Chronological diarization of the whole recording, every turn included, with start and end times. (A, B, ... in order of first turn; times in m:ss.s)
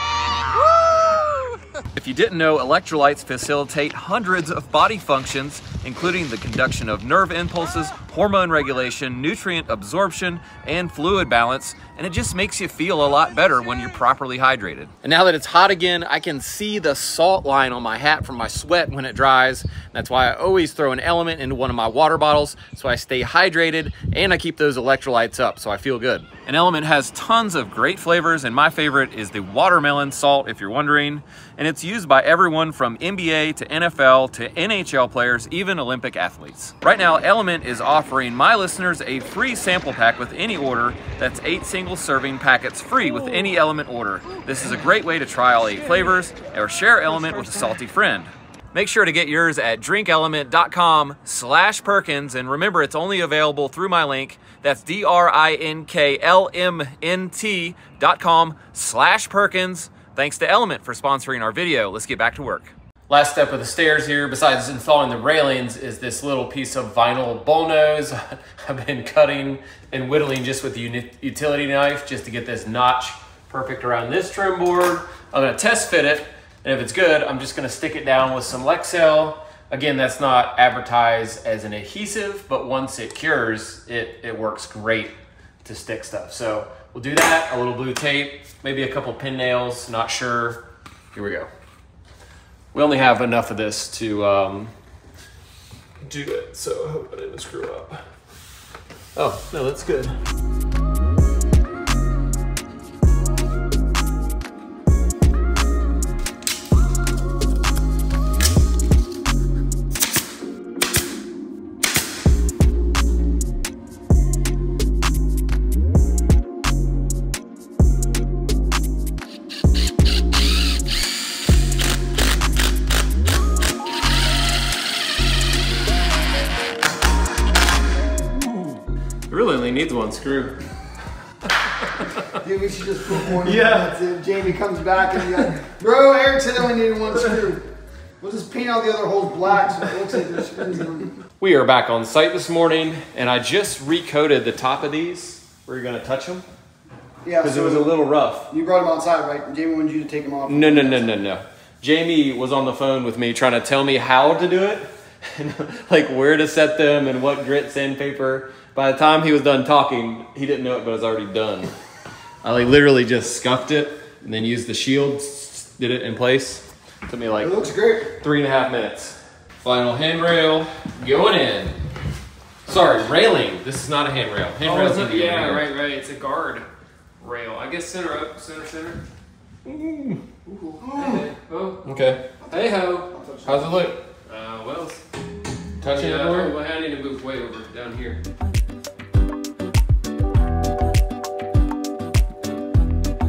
0:00.6-1:25.1 A
1:25.6-1:31.5 A
1:32.7-1:34.7 A
1:36.0-1:38.0 A
1:39.2-1:40.2 A
2:09.3-2:10.6 A
2:11.9-2:12.4 A
2:12.4-2:21.2 B
2:13.3-2:13.9 A
2:21.4-2:26.4 A
2:27.2-2:28.0 B
2:27.4-2:28.5 A
2:28.5-2:31.3 B
2:30.5-2:41.7 A
2:42.4-2:51.8 A
2:47.4-2:48.2 B
2:52.7-2:55.6 A
2:54.6-2:56.7 C
2:57.2-2:59.0 C
2:59.6-3:00.2 A
3:00.5-3:01.8 C
3:00.8-3:01.3 B
3:01.8-3:02.3 A
3:02.4-3:03.5 C
3:03.1-3:03.5 B
3:03.4-3:04.0 A
3:04.3-3:05.0 C
3:05.8-3:06.5 A
3:05.8-3:08.2 C